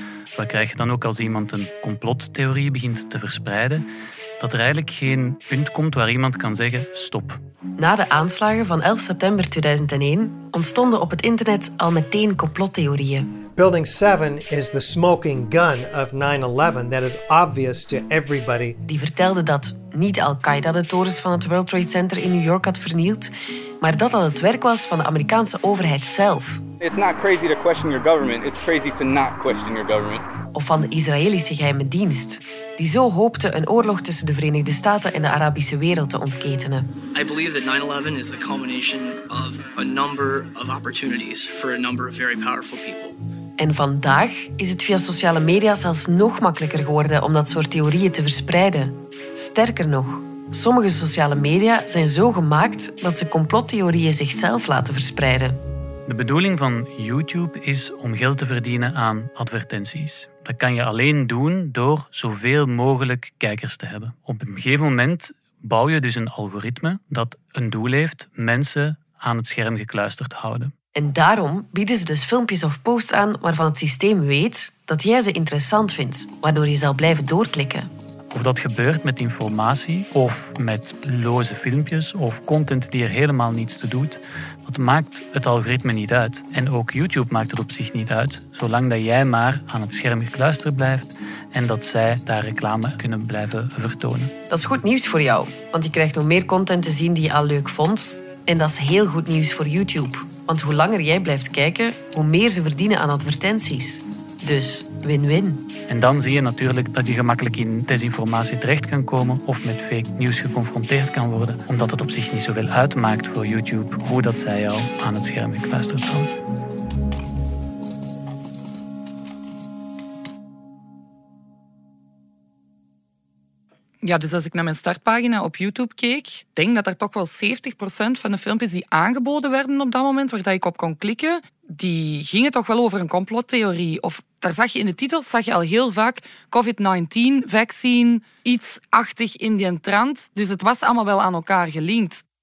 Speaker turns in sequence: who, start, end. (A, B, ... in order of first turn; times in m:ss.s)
0:00.3-0:03.8 A
0:04.4-0:07.4 A
0:07.8-0:13.4 B
0:13.5-0:18.8 C
0:18.8-0:26.6 B
0:26.8-0:30.2 D
0:30.5-0:36.9 B
0:37.1-0:43.2 E
0:43.6-0:55.6 B
0:56.1-1:10.7 A
1:10.9-1:17.9 B
1:18.3-1:34.3 A
1:34.5-1:45.6 B
1:45.9-1:56.3 A
2:04.0-2:22.2 F